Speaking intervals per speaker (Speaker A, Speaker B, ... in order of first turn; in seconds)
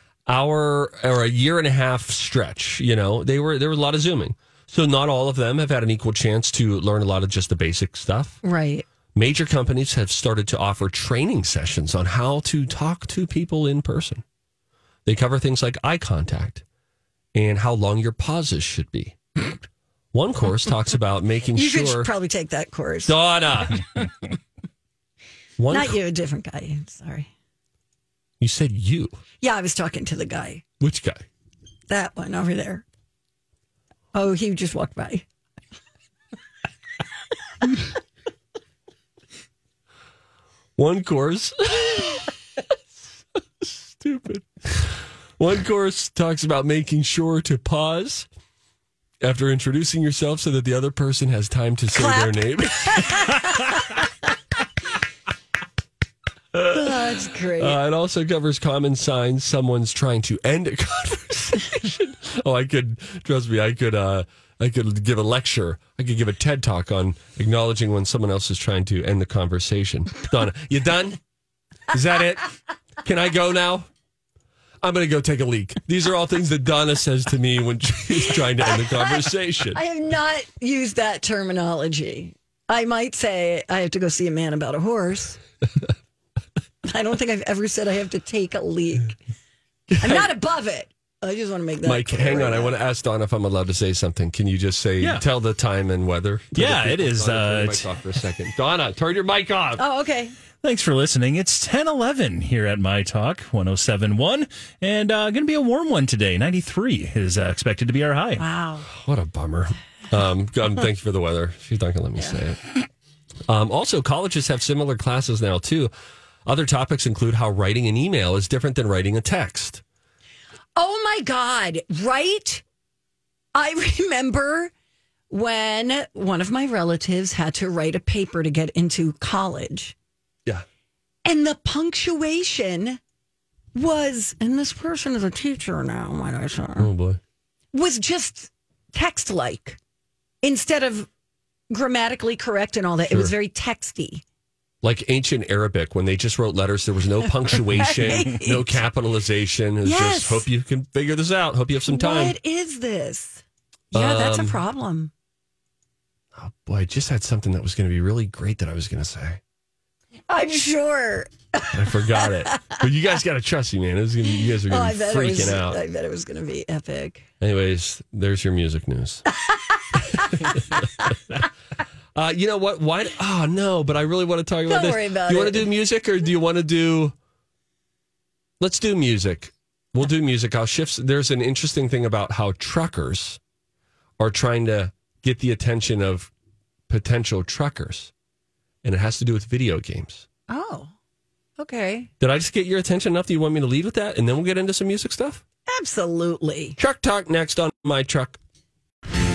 Speaker A: 0.3-8.4, 9.1-14.2, 15.1-16.6, 17.3-19.2, 20.1-22.1, 23.0-23.8, 25.6-26.0, 28.4-29.2, 30.8-31.2, 40.8-42.2, 43.6-48.3, 49.2-53.5, 56.5-71.2, 71.9-73.9, 74.8-79.8, 89.9-90.3, 91.8-99.8, 108.9-112.6, 113.5-115.9, 116.4-119.8, 136.8-137.2, 144.8-152.3, 153.9-154.6, 156.3-159.4, 161.7-165.8, 167.4-169.2, 170.3-170.6, 172.1-177.1, 178.6-183.4, 184.2-186.3, 186.9-188.1, 188.8-190.2, 192.2-195.4, 196.8-198.4
Speaker B: 8.4-8.8, 21.5-23.1, 25.7-27.3, 29.4-30.6, 31.9-32.8, 34.1-35.2, 51.9-53.8, 56.6-57.8, 78.3-85.4, 86.8-89.2, 90.0-92.7, 99.8-100.3, 108.4-108.9, 120.8-122.6, 123.5-124.7, 125.3-129.9, 131.2-133.0, 133.7-136.9, 137.7-139.8, 140.4-141.1, 141.7-144.2, 147.5-148.8, 149.8-150.5, 151.9-155.1, 160.3-162.8, 164.3-167.2, 169.4-170.6, 174.7-175.7, 190.5-190.9, 191.6-192.1, 195.7-196.8
Speaker C: 96.5-97.9, 100.6-108.4